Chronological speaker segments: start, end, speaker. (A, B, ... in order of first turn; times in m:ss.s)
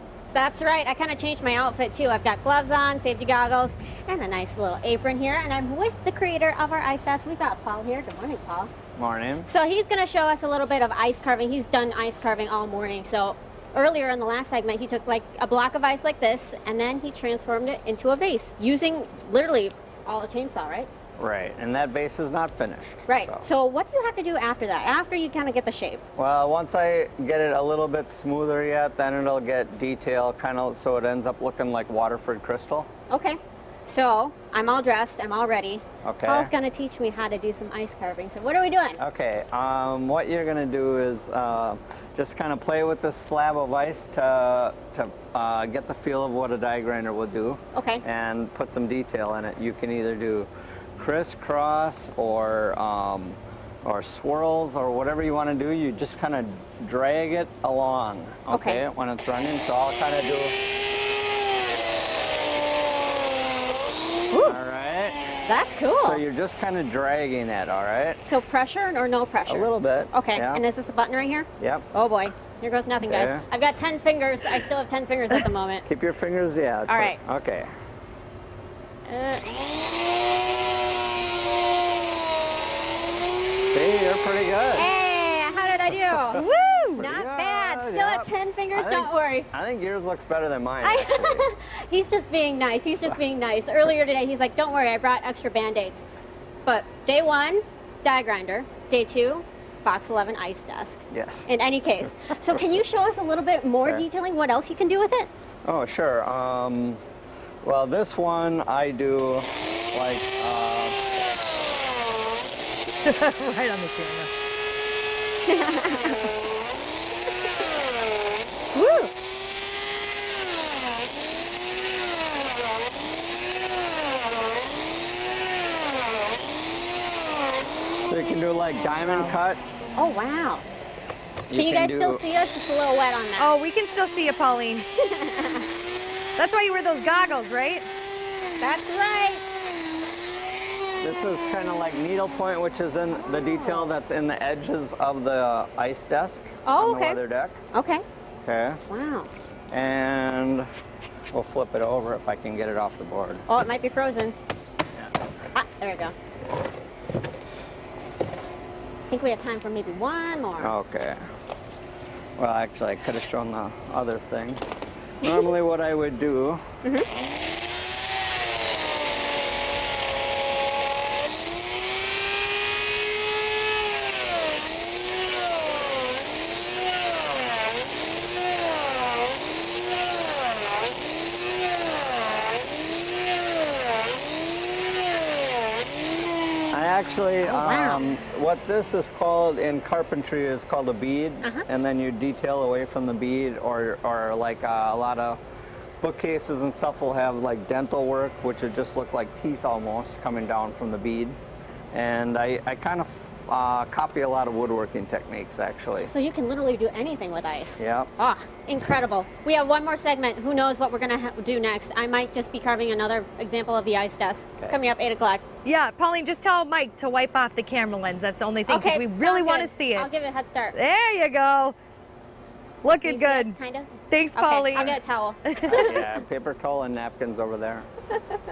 0:00.3-0:08.7 A
0:09.0-0:09.5 B
0:09.5-0:20.9 A
0:21.2-0:23.4 B
0:23.1-0:26.0 A
0:26.2-0:32.9 B
0:33.1-0:39.0 A
0:36.0-0:36.5 B
0:39.0-1:00.6 B
0:47.8-0:48.0 A
0:58.5-0:58.8 A
1:04.3-1:04.6 A
1:04.4-1:05.2 B
1:05.5-1:06.2 A
1:06.0-1:08.2 B
1:08.2-1:15.8 A
1:09.5-1:10.6 B
1:11.6-1:11.9 B
1:13.0-1:13.4 B
1:15.9-1:17.7 B
1:16.9-1:17.2 A
1:19.1-1:19.4 A
1:23.7-1:24.9 B
1:24.8-1:26.4 A
1:26.3-1:27.0 C
1:27.0-1:31.5 B
1:27.0-1:29.5 A
1:30.8-1:36.0 A
1:36.7-1:45.3 A
1:41.1-1:41.5 B
1:45.6-1:47.0 B
1:47.6-1:51.0 B
1:53.0-1:54.3 C
1:55.5-1:56.2 A
1:58.7-1:59.1 A
2:08.1-2:09.6 B
2:10.0-2:10.6 A
2:11.5-2:12.2 B
2:11.5-2:13.5 A
2:13.4-2:14.9 C
2:15.2-2:15.7 A
2:16.4-2:17.9 C
2:18.6-2:19.4 A
2:21.0-2:27.6 B
2:23.2-2:23.9 A
2:26.6-2:27.2 A
2:27.7-2:28.0 A
2:28.4-2:28.8 B
2:28.9-2:29.3 A
2:29.7-2:30.7 B
2:31.3-2:33.4 B
2:33.5-2:34.4 A
2:35.6-2:36.1 A
2:39.1-2:40.7 A
2:40.6-2:41.2 B
2:42.4-2:44.6 B
2:45.2-2:46.6 B
3:06.7-3:15.4 B
3:07.4-3:08.0 A
3:16.0-3:21.4 B
3:21.9-3:26.1 B
3:26.0-3:35.4 A
3:27.8-3:28.1 B
3:35.6-3:40.1 C
3:38.7-3:40.8 A
3:40.7-3:41.8 C
3:42.8-3:43.6 C
3:42.9-3:46.2 A
3:44.1-3:45.0 C
3:45.5-3:45.8 C
3:45.7-3:47.9 B